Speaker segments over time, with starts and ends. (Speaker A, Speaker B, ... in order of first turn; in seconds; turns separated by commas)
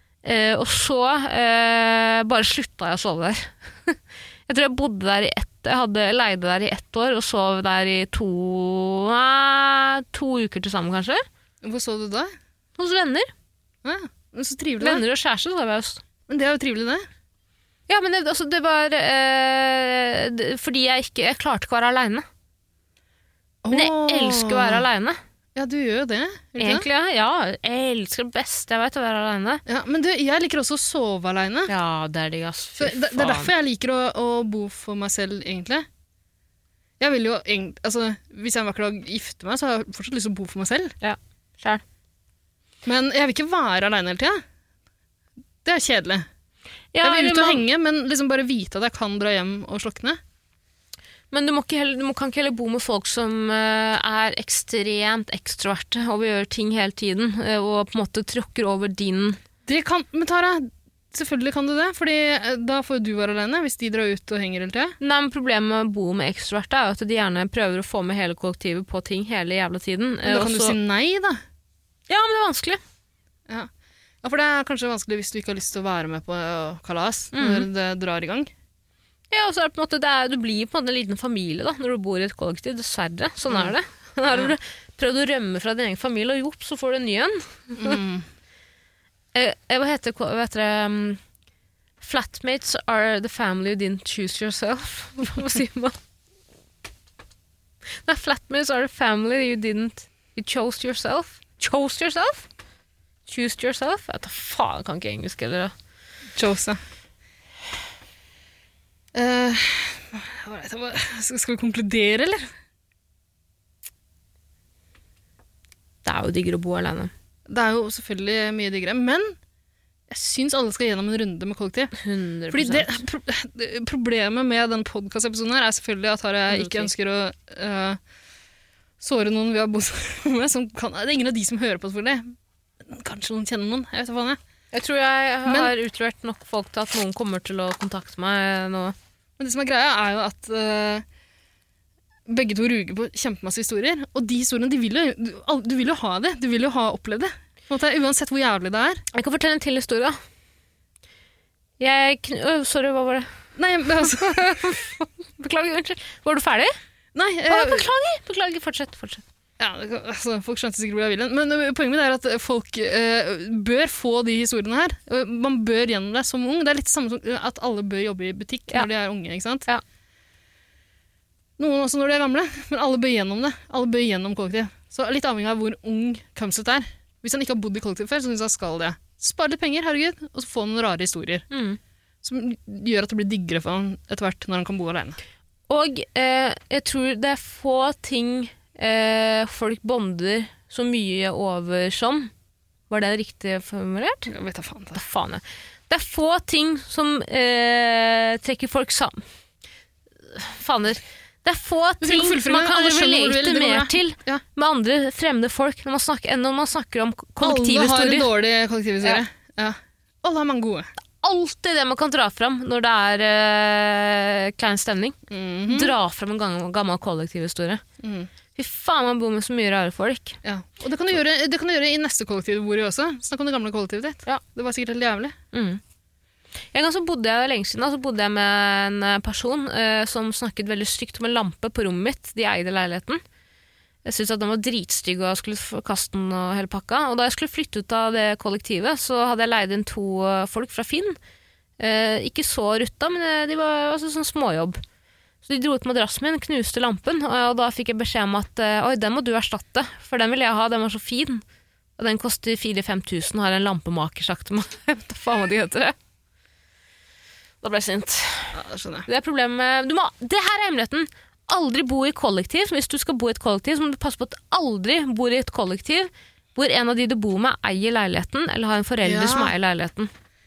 Speaker A: 0.2-11.2, Speaker B: 11.6-12.3, Speaker A: 12.8-13.3, Speaker B: 13.8-15.0, Speaker A: 14.8-16.0, Speaker B: 16.3-17.1, Speaker A: 17.9-22.3, Speaker B: 23.6-24.9, Speaker A: 23.7-25.2, Speaker B: 25.6-26.9, Speaker A: 26.6-29.6, Speaker B: 29.7-31.7, Speaker A: 31.7-33.5, Speaker B: 32.8-35.9, Speaker B: 37.0-41.0, Speaker A: 41.0-41.8, Speaker B: 42.9-44.4, Speaker B: 45.6-46.3, Speaker A: 46.9-47.6, Speaker B: 47.0-50.2, Speaker A: 51.3-59.4, Speaker B: 59.7-65.0, Speaker A: 65.0-70.8, Speaker B: 70.3-71.4, Speaker A: 72.1-72.8, Speaker B: 74.2-78.5, Speaker A: 77.3-77.7, Speaker A: 79.3-88.0, Speaker B: 83.5-83.7, Speaker B: 87.8-88.2, Speaker A: 89.3-91.2, Speaker A: 92.0-96.0, Speaker A: 98.0-102.5, Speaker A: 103.3-105.7, Speaker B: 106.4-106.8, Speaker B: 109.1-112.5, Speaker A: 116.0-117.1, Speaker B: 117.5-119.4, Speaker B: 120.1-122.0, Speaker A: 122.0-123.0, Speaker B: 122.5-128.0, Speaker A: 126.5-126.9, Speaker B: 129.0-132.3, Speaker B: 132.8-134.4, Speaker A: 134.7-139.0, Speaker B: 135.5-135.7, Speaker B: 139.4-141.0, Speaker B: 142.3-149.0, Speaker A: 149.1-150.2, Speaker A: 151.8-153.3, Speaker B: 153.6-154.5, Speaker A: 154.0-156.7, Speaker B: 157.2-157.9, Speaker A: 157.5-159.2, Speaker B: 159.6-169.7, Speaker B: 171.6-181.5, Speaker A: 181.5-181.8, Speaker B: 182.2-185.2, Speaker A: 185.7-192.3, Speaker A: 192.9-194.3, Speaker B: 194.3-195.0, Speaker A: 194.9-199.2, Speaker A: 200.3-208.3, Speaker B: 202.0-204.4, Speaker B: 207.4-210.9, Speaker A: 211.2-215.2, Speaker B: 215.3-215.9, Speaker A: 215.7-217.8, Speaker B: 218.0-218.3, Speaker A: 218.6-220.4, Speaker B: 220.4-225.3, Speaker A: 225.5-225.8, Speaker A: 226.7-233.2, Speaker A: 234.1-241.2, Speaker A: 241.8-244.8, Speaker A: 245.4-251.4, Speaker A: 252.0-256.0, Speaker A: 257.6-270.1, Speaker B: 258.5-259.1, Speaker B: 269.0-269.5